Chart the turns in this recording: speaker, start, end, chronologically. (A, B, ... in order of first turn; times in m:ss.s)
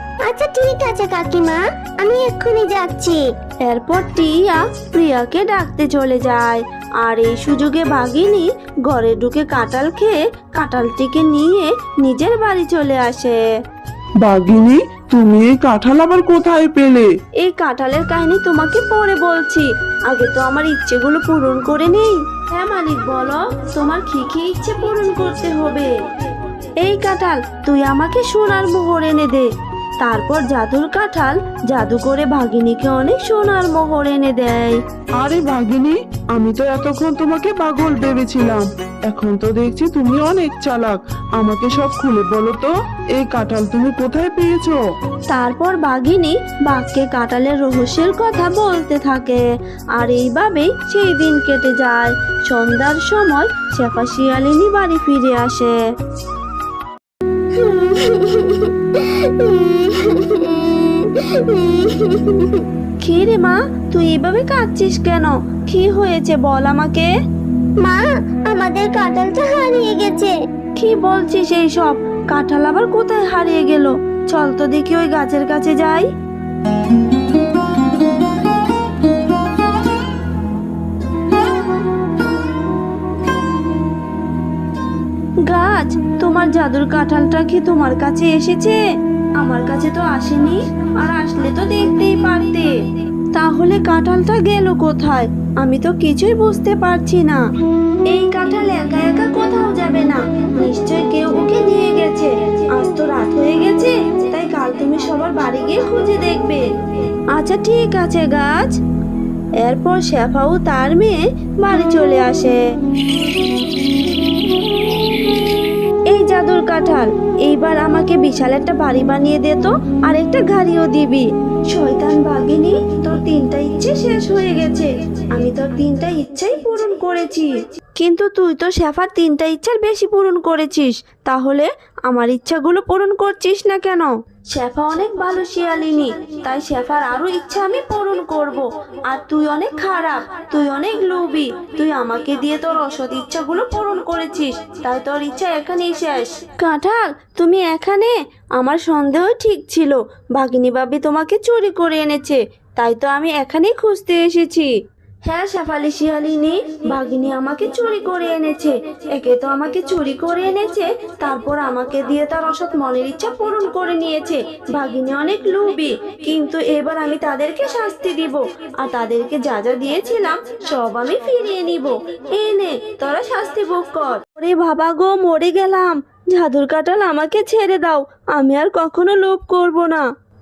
0:00.3-0:03.2 A
0:03.6-0:13.4 B
0:14.2-0:17.1 C
0:17.4-0:25.9 B
0:26.8-0:29.5 B
0:30.0-0:34.8 B
0:35.2-0:44.8 C
0:45.3-0:49.4 B
0:50.0-0:55.8 B
0:57.6-1:02.5 A
1:03.0-1:07.1 B
1:07.8-1:10.3 A
1:10.8-1:16.1 B
1:25.5-1:28.8 B
1:29.4-1:32.7 B
1:33.3-1:37.4 B
1:38.1-1:46.6 B
1:47.3-1:48.8 B
1:49.6-1:52.6 B
1:56.1-2:34.7 B
2:35.2-3:00.0 B